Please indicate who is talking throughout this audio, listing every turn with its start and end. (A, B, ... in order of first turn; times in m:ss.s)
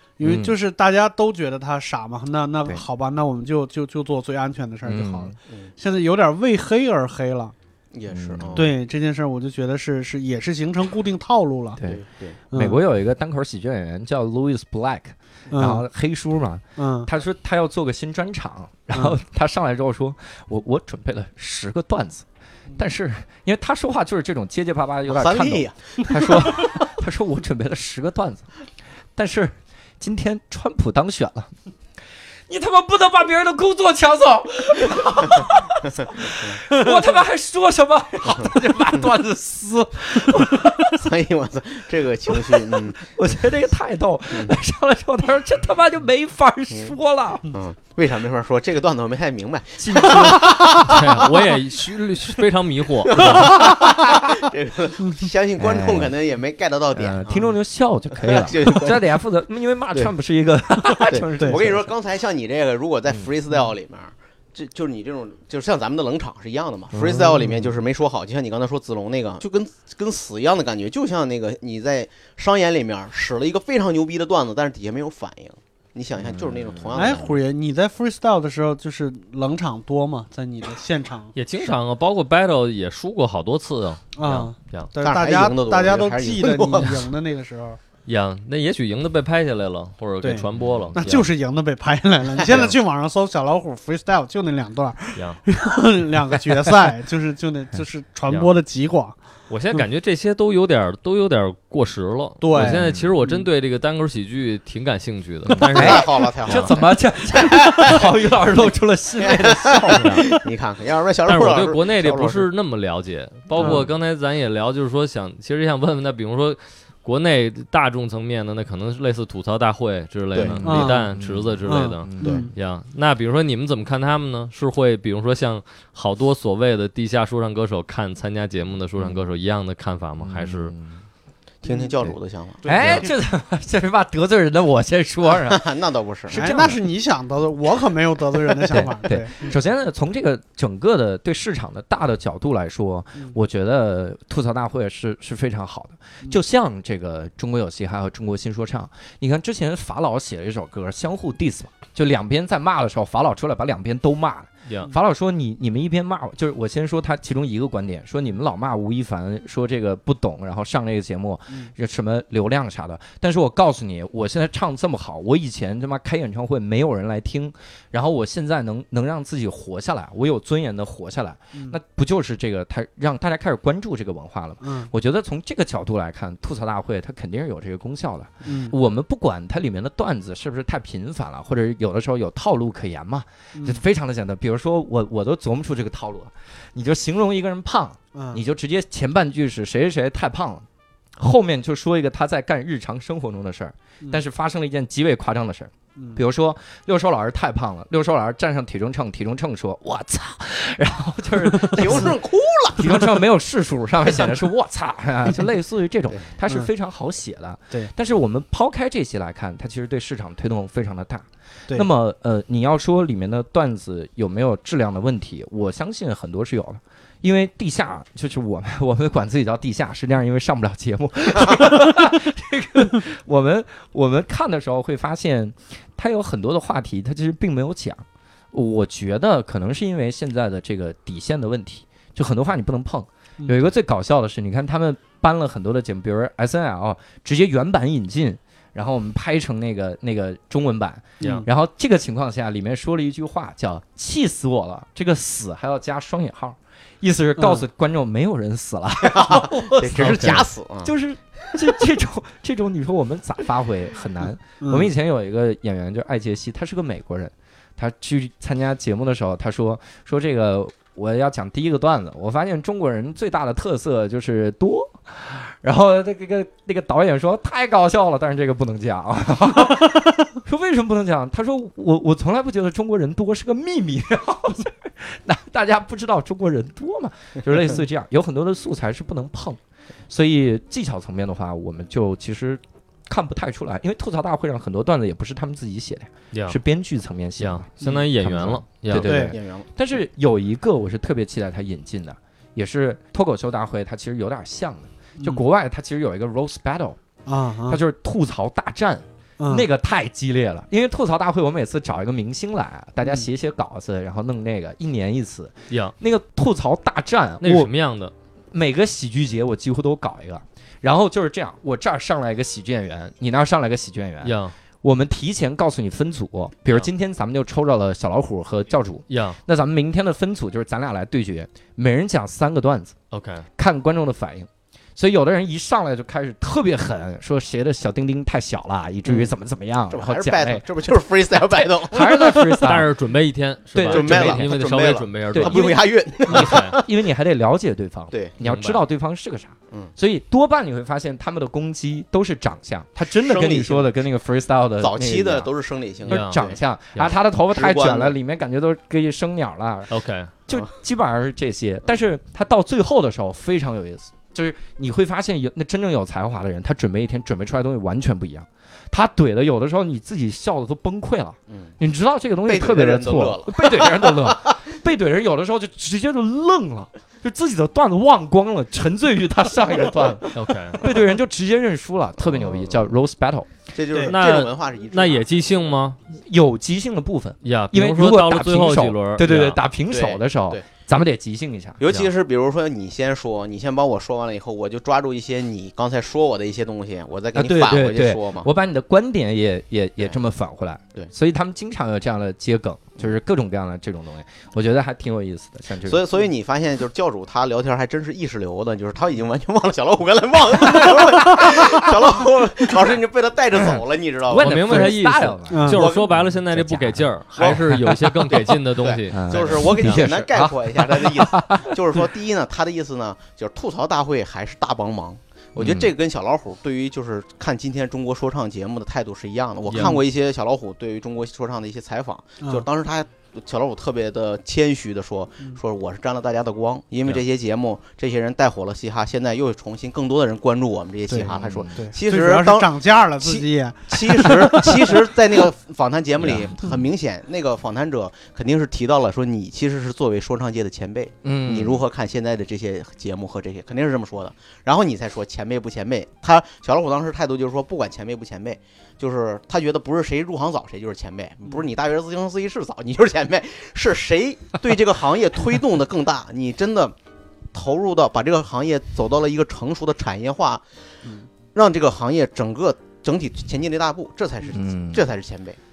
0:00.2-0:07.5 A
0:00.2-0:00.6 B
0:04.8-0:05.3 B
0:07.9-0:08.7 C
0:08.1-0:08.7 B
0:08.5-0:11.8 A
0:11.8-0:12.4 C
0:12.5-0:12.8 A
0:12.5-0:22.2 B
0:15.5-0:15.8 A
0:16.8-0:17.1 A
0:22.8-0:28.5 B
0:25.1-0:26.9 C
0:29.2-0:31.5 B
0:32.5-0:41.0 B
0:36.2-0:36.6 C
0:40.8-0:43.1 C
0:42.3-0:47.4 B
0:44.3-0:44.6 C
0:47.5-0:51.0 C
0:49.8-0:50.9 B
0:50.6-0:53.5 D
0:53.1-0:57.5 C
0:53.4-0:53.7 B
0:55.6-0:56.1 B
0:56.9-1:01.9 B
0:58.1-0:59.1 C
1:01.0-1:17.4 C
1:06.9-1:07.5 B
1:07.1-1:07.5 A
1:16.2-1:16.8 B
1:17.0-1:21.3 A
1:21.3-1:24.9 D
1:24.2-1:27.8 A
1:25.0-1:27.1 C
1:28.0-1:31.3 D
1:30.2-1:39.2 A
1:30.5-1:31.1 B
1:32.4-1:32.7 C
1:35.2-1:35.4 D
1:39.5-1:46.7 D
1:42.4-1:43.4 A
1:42.6-1:43.1 B
1:45.5-1:50.4 B
1:45.6-1:48.1 C
1:49.2-1:52.5 C
1:49.9-1:50.2 D
1:51.2-2:10.7 D
1:53.6-1:53.8 A
2:00.6-2:02.4 B
2:00.6-2:01.1 A
2:01.6-2:02.5 A
2:02.2-2:02.5 C
2:10.2-2:11.0 B
2:11.6-2:13.1 C
2:11.6-2:11.9 A
2:12.0-2:15.6 B
2:12.6-2:13.1 A
2:15.4-2:16.6 C
2:16.3-2:16.8 B
2:16.3-2:19.5 A
2:18.7-3:10.6 B
2:34.6-2:34.9 D
2:54.6-2:54.9 A
2:58.4-2:58.8 A
3:03.5-3:03.8 A
3:08.1-3:08.4 A
3:11.2-3:22.2 B
3:21.7-3:22.0 A
3:21.7-3:23.0 C
3:22.8-4:57.0 B
3:53.4-3:53.6 A
4:01.2-4:01.5 A
4:07.4-4:07.6 A
4:09.0-4:10.9 C
4:10.0-4:10.4 D
4:14.6-4:14.9 A
4:46.3-4:46.6 D
4:47.4-4:49.1 D
4:49.0-4:49.3 A
4:49.2-4:49.6 C
4:57.2-4:57.8 A
4:57.6-5:07.7 B
4:59.4-4:59.6 A
5:07.4-5:08.1 D
5:08.5-5:23.0 B
5:14.2-5:14.5 D
5:19.1-5:19.4 D
5:23.1-5:23.4 D
5:23.6-5:32.9 B
5:29.0-5:29.3 C
5:29.9-5:32.4 C
5:32.5-5:35.6 D
5:33.7-5:34.6 B
5:33.9-5:36.9 C
5:35.3-5:45.5 B
5:36.3-5:36.8 D
5:38.1-5:38.4 C
5:38.4-5:38.8 D
5:43.1-5:43.9 C
5:44.8-5:46.6 C
5:46.0-5:49.9 B
5:46.1-5:46.4 D
5:47.5-5:48.2 C
5:49.9-5:50.3 D
5:50.5-6:13.5 B
6:02.4-6:04.6 C
6:10.3-6:10.8 D
6:12.2-6:12.8 C
6:13.7-6:15.6 C
6:14.0-6:16.0 D
6:16.1-6:21.8 B
6:17.4-6:19.6 D
6:19.9-6:20.6 C
6:21.8-6:28.5 C
6:27.3-6:36.0 B
6:35.8-6:44.9 C
6:40.8-6:41.5 A
6:43.5-6:48.4 B
6:44.4-6:50.1 D
6:45.5-6:45.8 A
6:45.7-6:46.1 C
6:47.4-6:47.7 C
6:48.2-7:36.9 C
6:49.1-6:52.0 B
6:55.6-6:55.9 B
6:59.6-7:00.0 D
6:59.8-7:00.0 A
7:11.1-7:14.9 A
7:11.3-7:11.8 B
7:16.2-7:16.7 B
7:21.2-7:21.8 B
7:37.5-7:40.6 C
7:41.5-7:45.6 C
7:44.5-7:45.1 B